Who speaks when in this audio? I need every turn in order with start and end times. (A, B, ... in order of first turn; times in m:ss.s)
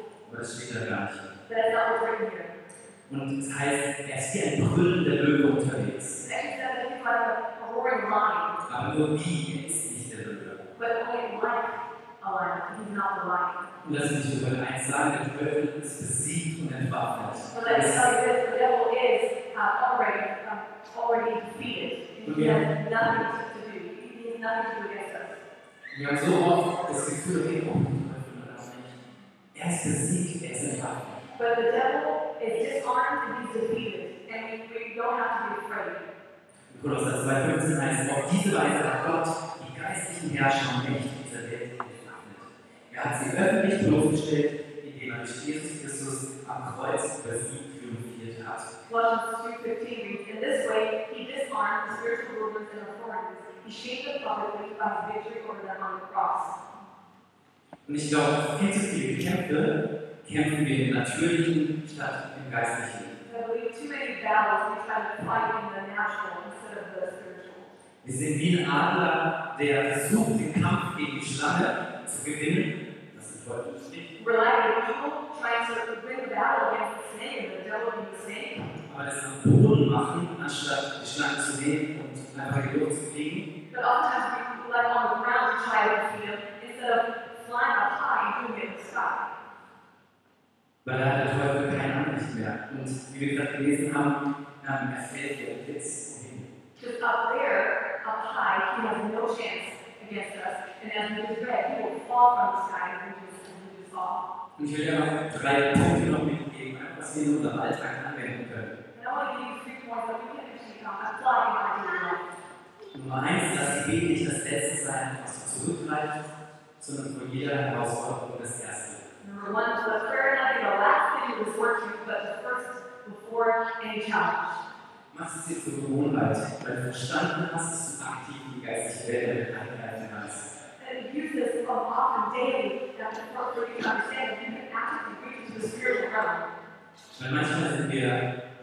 0:00.2-0:01.3 A
0:01.5-0:02.5 B
0:03.1-0:06.2 A
0:06.2-0:08.6 B
0:08.7-0:10.7 A
0:10.8-0:13.7 B
0:13.8-0:18.0 A
0:17.5-0:25.4 B
0:22.3-0:22.6 A
0:25.9-0:29.0 A
0:29.5-0:31.2 A
0:31.4-0:36.0 B
0:36.7-0:48.7 A
0:48.9-0:56.6 B
0:57.9-1:03.2 A
1:03.2-1:07.7 B
1:08.0-1:14.1 A
1:14.2-1:18.7 B
1:18.9-1:23.5 A
1:23.7-1:29.3 B
1:30.8-1:36.5 A
1:36.8-1:44.2 B
1:44.6-1:48.7 A
1:48.9-1:52.2 B
1:52.9-1:56.2 A
1:56.8-1:59.1 A
1:59.2-2:04.6 B
2:05.1-2:10.5 A
2:10.8-2:16.4 B
2:17.2-2:18.2 A